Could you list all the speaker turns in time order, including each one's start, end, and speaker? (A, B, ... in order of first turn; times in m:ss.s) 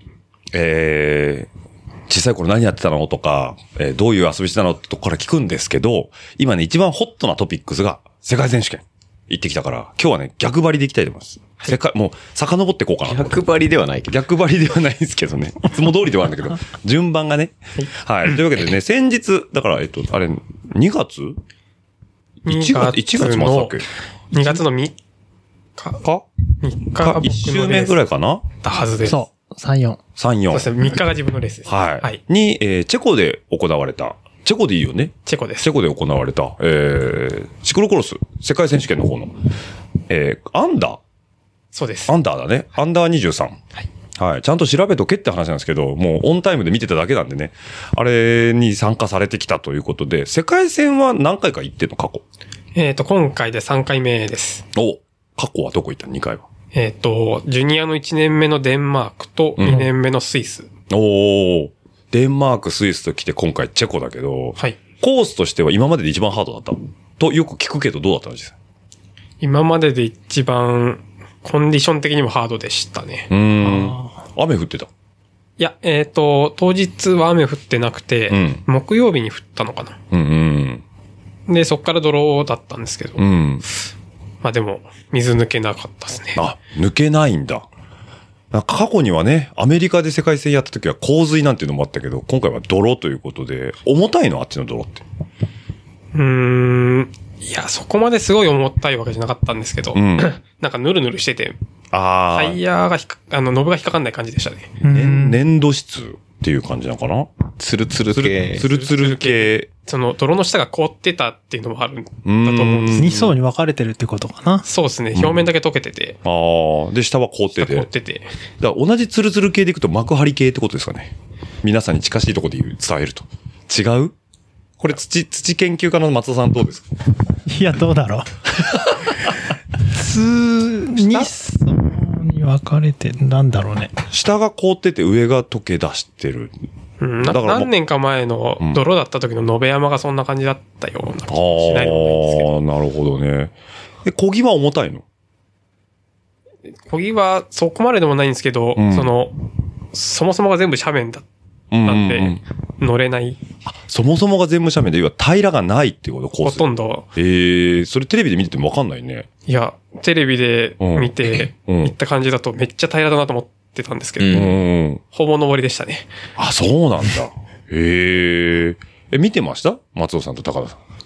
0:00.5-0:01.5 A
0:02.1-0:13.4 A
0:13.1-0:14.1 B
0:14.1-0:21.4 A
0:22.4-0:23.8 C
0:22.5-0:24.6 A
0:24.3-0:25.0 C
0:25.8-0:26.0 C
0:26.0-0:26.3 A
0:26.6-0:28.0 C
0:27.0-0:28.4 A
0:28.6-0:29.2 C
0:29.0-0:30.0 D
0:30.2-0:30.7 A
0:30.5-0:32.2 C
0:31.7-0:39.3 A
0:35.3-0:35.7 C
0:40.1-0:41.0 A
0:41.7-0:42.2 C
0:42.1-0:43.6 A
0:44.2-0:52.2 A
0:52.8-0:54.6 C
0:54.8-0:56.4 A
0:56.7-1:00.7 C
0:59.6-0:59.9 A
1:00.9-1:08.6 A
1:09.4-1:13.3 C
1:13.3-1:14.9 A
1:13.6-1:14.1 D
1:15.6-1:20.0 C
1:18.3-1:18.6 A
1:20.1-1:20.8 A
1:21.5-1:23.2 C
1:23.2-1:23.6 A
1:24.4-1:26.4 C
1:26.4-1:27.7 A
1:28.5-1:35.0 A
1:36.1-1:41.6 C
1:40.0-1:40.3 A
1:41.9-1:42.6 A
1:42.4-1:44.7 C
1:44.8-1:45.4 D
1:44.9-1:47.3 A
1:47.6-1:48.6 B
1:48.1-1:49.7 A
1:48.6-1:53.1 C
1:52.2-1:53.4 A
1:53.0-1:54.6 D
1:54.6-1:56.2 C
1:55.2-1:55.5 A
1:56.2-1:57.9 A
1:57.6-1:58.3 C
1:58.6-2:04.2 A
2:04.8-2:06.9 A
2:07.5-2:08.9 D
2:09.9-2:13.9 D
2:11.0-2:11.3 A
2:14.1-2:16.5 A
2:17.0-2:22.5 C
2:17.2-2:17.7 A
2:21.3-2:25.0 A
2:26.9-2:29.4 C
2:28.8-2:29.1 A
2:29.9-2:31.3 C
2:31.7-2:32.4 A
2:31.8-2:33.4 C
2:33.7-2:39.3 A
2:36.4-2:37.1 C
2:39.5-2:44.5 C
2:40.8-2:41.9 A
2:44.2-2:44.6 B
2:44.3-2:45.0 A
2:45.1-2:46.1 C
2:46.4-2:50.8 A